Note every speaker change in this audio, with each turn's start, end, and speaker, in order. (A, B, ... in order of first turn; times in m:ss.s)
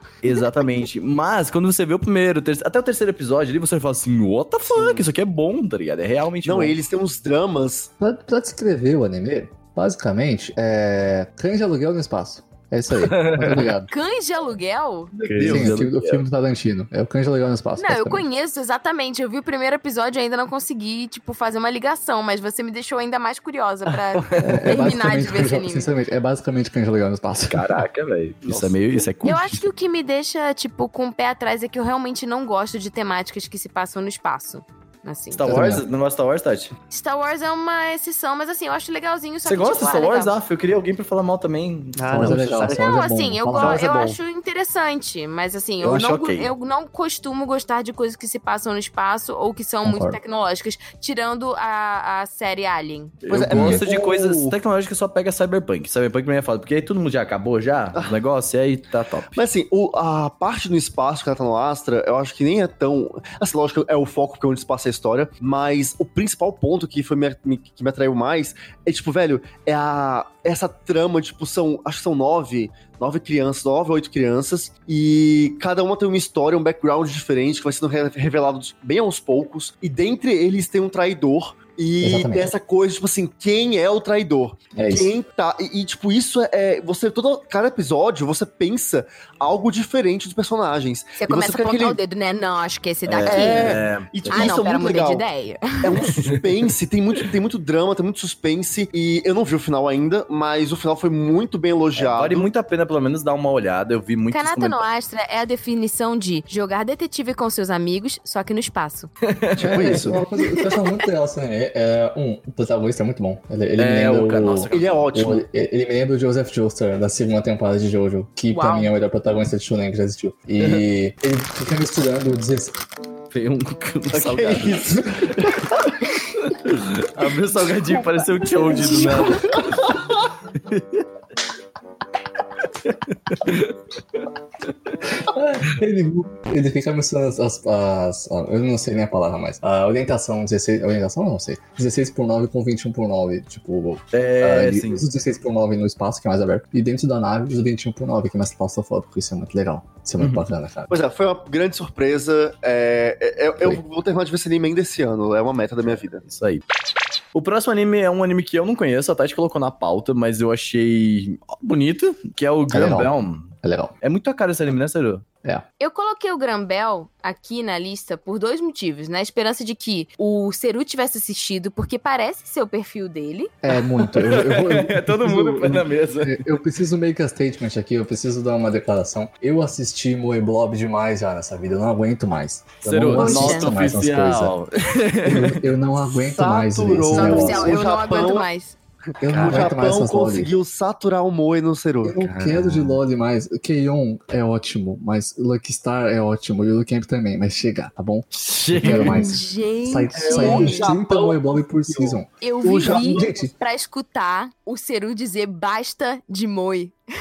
0:00.2-0:06.8 A
0:04.7-0:05.0 B
0:06.4-0:07.9 B
0:08.0-0:13.9 C
0:13.0-0:13.7 A
0:13.9-0:15.1 D
0:15.2-0:16.2 A
0:15.3-0:15.8 B
0:15.4-0:18.2 C
0:17.8-0:25.9 D
0:24.1-0:24.8 A
0:24.4-0:27.8 C
0:27.5-0:29.6 A
0:28.4-0:29.1 B
0:29.2-0:35.4 D
0:35.3-0:36.7 A
0:35.4-0:35.8 C
0:36.9-0:40.3 D
0:39.4-0:42.4 A
0:41.9-0:42.8 B
0:42.1-0:43.8 C
0:42.7-0:53.2 D
0:43.5-0:44.2 B
0:45.8-0:46.5 A
0:49.8-0:50.2 C
0:53.2-0:59.4 A
0:53.3-0:54.5 B
0:53.5-0:53.8 C
0:59.3-1:32.0 B
1:22.0-1:22.5 C
1:24.7-1:25.1 C
1:31.2-1:36.1 D
1:33.1-1:34.6 A
1:33.2-1:35.2 B
1:35.8-1:42.5 B
1:41.9-1:44.8 A
1:44.3-1:49.1 D
1:49.3-1:50.1 A
1:49.5-1:50.2 B
1:49.7-2:02.8 C
1:53.8-1:55.0 A
1:54.7-1:55.4 B
1:58.5-1:58.9 D
2:00.6-2:00.8 A
2:03.3-2:09.9 A
2:04.1-2:05.8 B
2:08.6-2:10.0 B
2:10.6-2:11.0 A
2:12.8-2:14.2 A
2:15.2-2:30.9 C
2:24.1-2:25.0 A
2:30.2-2:30.4 A
2:30.9-2:36.2 B
2:36.2-2:36.6 A
2:37.3-2:45.2 A
2:42.7-2:43.1 C
2:43.6-2:43.9 C
2:45.8-2:53.5 D
2:53.6-3:04.5 C
2:53.9-2:56.4 A
3:02.8-3:05.6 A
3:03.2-3:03.7 D
3:05.2-3:07.8 C
3:06.1-3:08.5 B
3:07.1-3:08.8 D
3:09.2-3:10.5 C
3:09.2-3:12.2 B
3:09.3-3:09.7 A
3:12.0-3:22.3 C
3:12.2-3:13.0 A
3:18.3-3:19.3 A
3:18.8-3:20.9 D
3:20.2-3:23.3 B
3:22.4-3:26.9 D
3:22.8-3:23.5 C